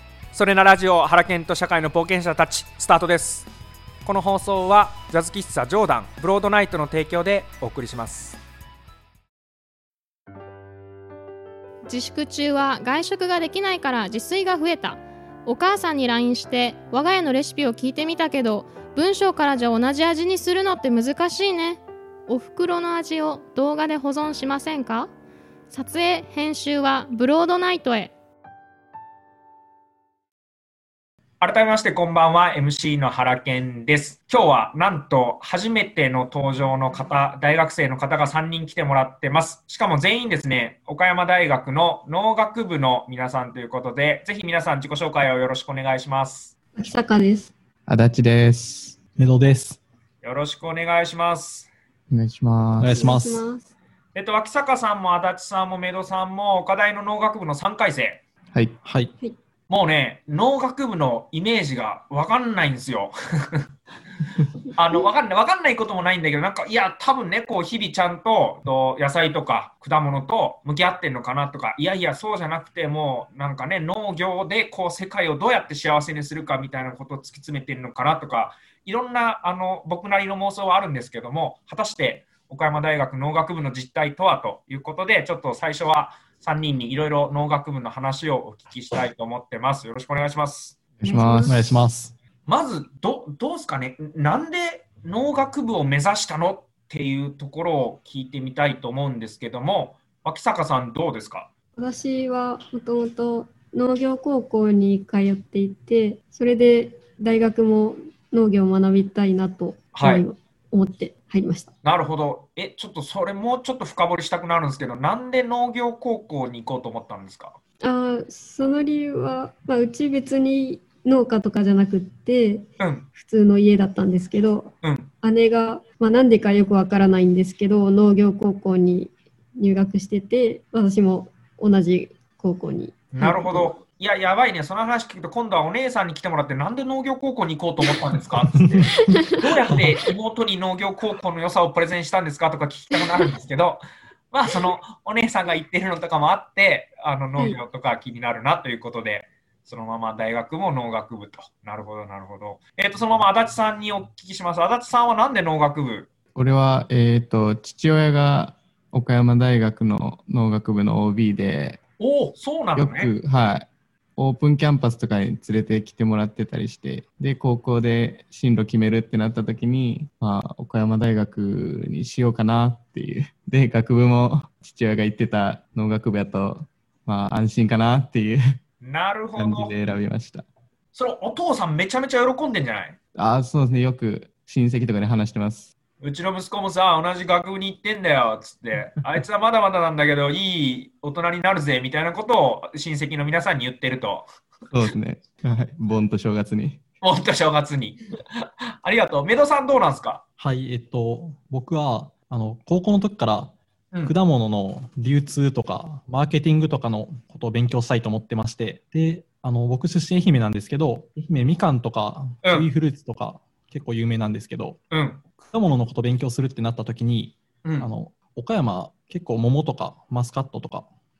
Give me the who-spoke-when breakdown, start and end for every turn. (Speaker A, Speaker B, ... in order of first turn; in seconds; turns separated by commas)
Speaker A: 0.3-3.5, Speaker A: 4.0-8.4, Speaker B: 11.8-25.1, Speaker B: 25.7-28.1, Speaker A: 31.4-46.5, Speaker C: 46.7-47.5, Speaker D: 47.9-49.0, Speaker E: 49.2-49.8, Speaker A: 50.2-51.7, Speaker D: 52.1-53.0, Speaker E: 52.8-53.4, Speaker C: 52.9-53.7, Speaker A: 54.1-58.2, Speaker D: 58.5-58.8, Speaker E: 58.8-59.1, Speaker A: 59.7-63.7, Speaker A: 64.7-90.8, Speaker D: 91.0-91.8, Speaker C: 91.0-91.8, Speaker E: 91.5-92.1, Speaker A: 92.5-101.5, Speaker C: 101.8-111.7, Speaker A: 109.9-110.2, Speaker A: 111.8-117.6, Speaker C: 117.8-133.7, Speaker A: 122.8-123.1, Speaker A: 124.8-125.1, Speaker A: 133.1-156.1, Speaker E: 138.5-138.8, Speaker C: 139.0-139.4, Speaker D: 156.3-161.8, Speaker A: 162.0-163.1, Speaker D: 162.8-178.6, Speaker A: 178.8-179.7, Speaker D: 179.4-180.4, Speaker A: 180.9-183.0, Speaker D: 183.1-185.7, Speaker A: 186.0-194.2, Speaker D: 194.7-196.8, Speaker A: 197.0-200.2, Speaker E: 200.4-203.5, Speaker E: 204.0-214.8, Speaker A: 212.4-212.7, Speaker A: 214.9-215.2, Speaker E: 215.4-220.9, Speaker A: 217.6-217.9